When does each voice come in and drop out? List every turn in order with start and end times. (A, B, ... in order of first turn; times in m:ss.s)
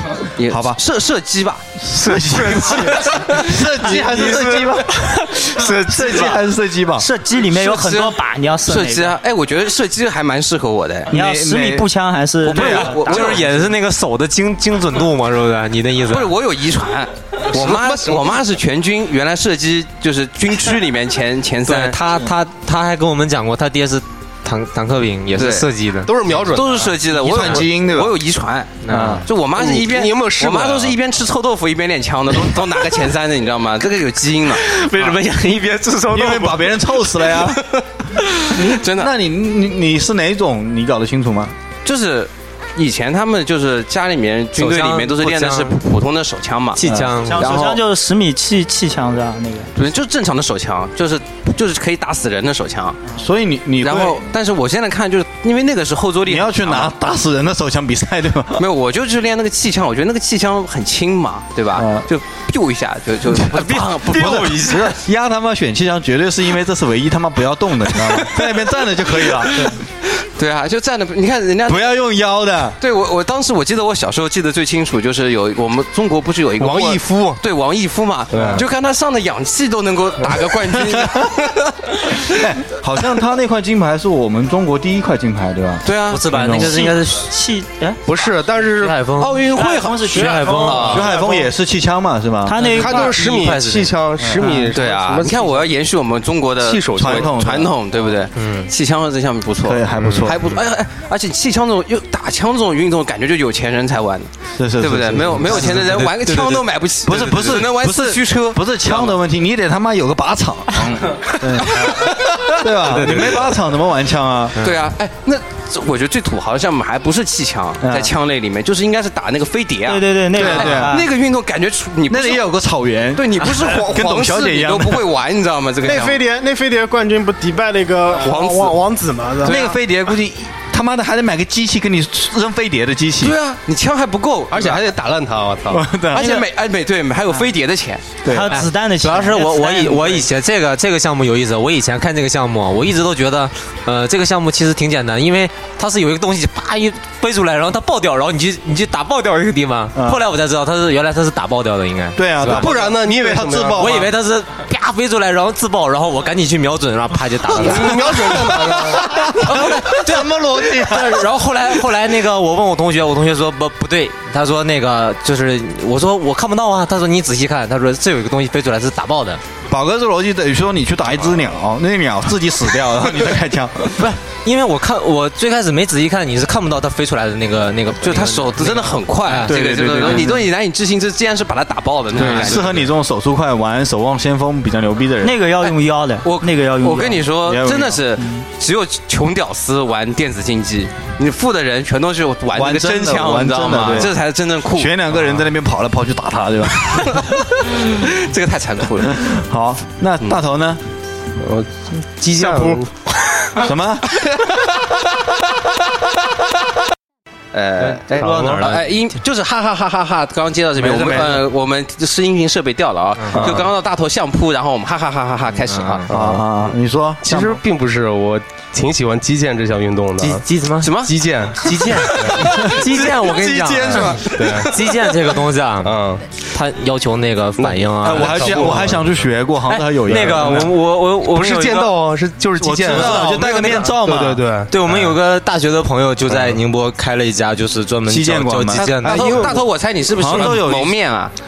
0:00.4-0:01.6 A
0:00.5-0:00.8 B
0:01.8-0:07.1 B
0:02.0-0:06.4 C
0:02.4-0:03.2 A
0:03.9-0:04.4 A
0:07.0-0:09.1 D
0:07.5-0:11.1 A
0:11.1-0:11.9 B
0:11.1-0:13.4 D
0:12.5-0:13.6 B
0:12.5-0:13.4 A
0:12.5-0:16.3 C
0:16.0-0:22.0 A
0:17.5-0:18.2 B
0:21.7-0:26.9 C
0:25.3-0:25.7 A
0:26.0-0:26.8 E
0:26.5-0:34.6 A
0:27.1-0:28.2 B
0:28.8-0:29.2 C
0:28.9-0:29.2 B
0:29.6-0:31.0 E
0:34.5-0:36.8 C
0:36.1-0:37.6 B
0:38.6-0:39.1 A
0:38.9-0:41.6 B
0:41.8-0:47.8 A
0:44.6-0:45.8 C
0:46.7-0:47.6 C
0:46.8-0:47.8 B
0:47.2-0:49.7 D
0:49.7-0:53.0 A
0:53.2-0:54.2 B
0:53.8-0:57.0 A
0:56.2-0:58.6 B
0:58.6-1:04.8 A
1:01.7-1:02.0 B
1:03.4-1:09.8 B
1:03.8-1:04.7 C
1:09.6-1:11.9 A
1:11.7-1:12.8 B
1:12.8-1:22.3 A
1:16.6-1:17.4 B
1:18.3-1:18.6 E
1:20.8-1:21.2 B
1:22.3-1:26.7 B
1:25.8-1:26.2 A
1:26.1-1:27.3 C
1:26.6-1:28.0 D
1:28.1-1:29.1 E
1:28.8-1:29.4 C
1:29.2-1:31.1 A
1:29.4-1:31.5 F
1:29.5-1:30.8 D
1:30.1-1:31.0 C
1:30.8-1:32.5 B
1:32.4-1:33.1 D
1:32.6-1:33.9 C
1:32.8-1:35.7 E
1:34.2-1:34.6 B
1:34.4-1:34.7 D
1:34.7-1:49.1 A
1:36.6-1:37.4 E
1:37.0-1:37.7 B
1:38.3-1:38.7 C
1:39.6-1:40.4 B
1:40.0-1:40.3 E
1:44.6-1:54.6 B
1:45.5-1:45.8 C
1:51.6-1:52.0 A
1:52.8-1:53.4 C
1:54.6-2:02.4 A
1:57.8-1:58.1 B
1:59.8-2:01.1 D
2:00.3-2:01.0 B
2:02.1-2:05.0 B
2:03.1-2:06.2 A
2:05.8-2:09.7 F
2:08.2-2:08.6 A
2:09.4-2:09.7 A
2:09.4-2:13.3 B
2:13.2-2:14.8 A
2:14.5-2:15.8 E
2:15.7-2:16.4 B
2:16.0-2:18.0 A
2:18.2-2:18.5 B
2:18.3-2:20.2 D
2:18.5-2:32.7 C
2:29.9-2:30.2 B
2:32.1-2:34.1 B
2:32.5-2:33.8 E
2:33.8-2:38.5 C
2:37.6-2:39.0 E
2:37.6-2:41.2 B
2:39.4-2:49.4 C
2:49.7-2:54.1 B
2:54.0-3:00.3 C
2:58.0-3:02.8 A
2:59.4-3:00.4 B
3:02.2-3:02.7 C
3:02.2-3:05.3 B
3:05.2-3:07.2 D
3:05.6-3:14.9 A
3:07.4-3:08.0 B
3:08.2-3:08.4 D
3:12.5-3:14.1 B
3:14.7-3:17.3 B
3:17.0-3:17.3 A
3:17.8-3:19.2 A
3:19.0-3:20.8 B
3:21.4-3:22.9 E
3:23.6-3:24.0 B
3:27.5-3:36.1 A
3:27.8-3:29.0 C
3:28.2-3:28.8 B
3:30.8-3:31.4 B
3:33.2-3:33.6 C
3:33.3-3:33.7 B
3:35.6-3:36.1 C
3:36.1-3:36.6 E
3:36.1-3:37.6 B
3:37.2-3:40.4 E
3:40.2-3:40.9 C
3:40.8-3:41.2 A
3:41.0-3:42.4 E
3:41.6-3:49.0 C
3:42.4-3:44.6 B
3:44.3-3:44.7 E
3:45.8-3:46.2 E
3:47.6-3:48.9 E
3:48.0-3:50.7 B
3:49.6-3:51.9 C
3:50.1-3:50.7 E
3:51.3-3:54.7 E
3:52.6-3:54.4 B
3:52.9-3:54.0 C
3:54.7-3:59.5 C
3:56.3-3:56.6 B
3:58.0-3:59.0 B
3:58.7-4:01.3 A
3:59.0-4:00.5 E
4:00.1-4:01.0 B
4:00.3-4:00.5 C